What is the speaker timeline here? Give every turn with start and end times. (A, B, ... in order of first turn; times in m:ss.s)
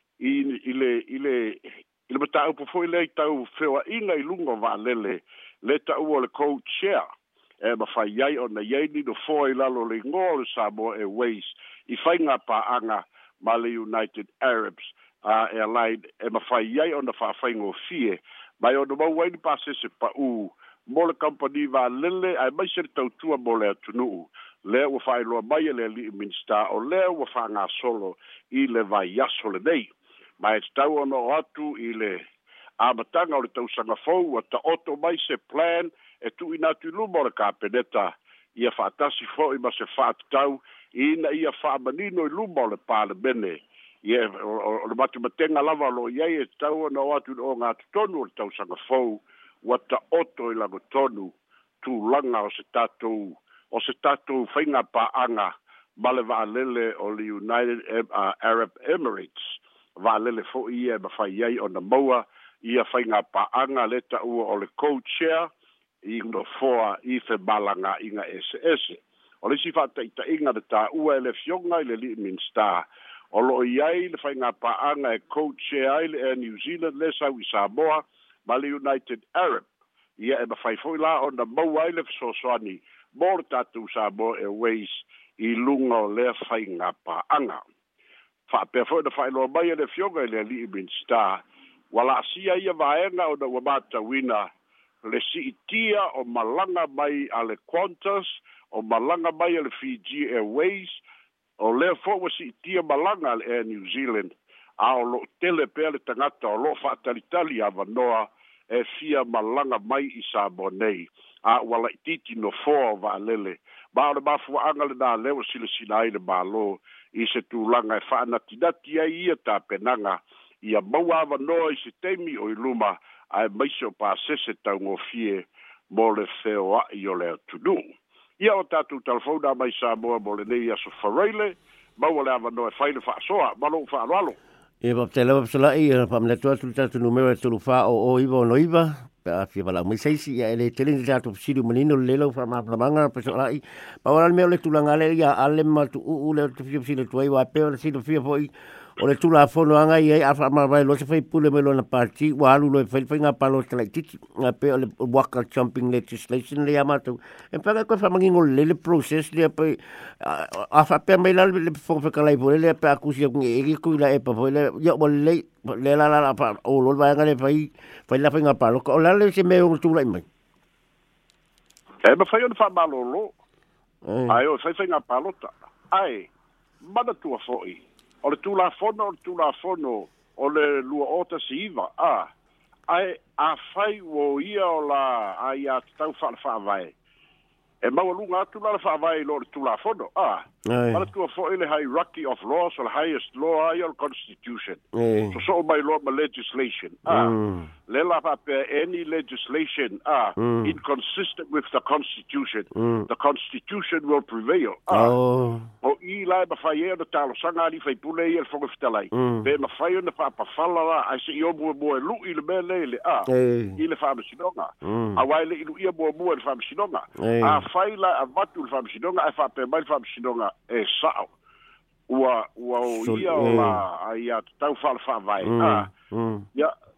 0:00.2-0:07.0 A
0:07.6-0:29.9 A
0:30.4-0:32.2 A
0:32.8-1:05.5 A
1:06.0-1:19.7 A
1:20.2-1:27.6 A
1:28.5-1:31.4 A
1:31.9-1:34.5 A
1:35.0-1:41.0 A
1:41.6-2:07.8 A
2:08.4-2:14.4 A
2:14.8-2:50.3 B
2:52.0-2:53.3 A
2:54.0-2:54.4 B
2:54.3-2:56.3 A
2:56.8-3:02.3 A
3:02.9-3:06.9 A
3:07.8-3:14.8 A
3:10.7-3:11.1 B
3:14.9-3:15.4 B
3:15.3-3:17.3 A
3:17.1-3:17.7 B
3:17.9-3:25.1 A
3:20.4-3:20.8 B
3:22.8-3:23.1 B
3:24.9-3:25.7 B
3:25.8-3:33.3 A
3:29.1-3:29.5 B
3:33.3-3:33.8 B
3:33.8-3:41.3 A
3:34.8-3:35.2 B
3:37.2-3:37.6 B
3:42.1-3:45.9 A
3:42.8-3:43.8 B
3:45.4-3:46.5 B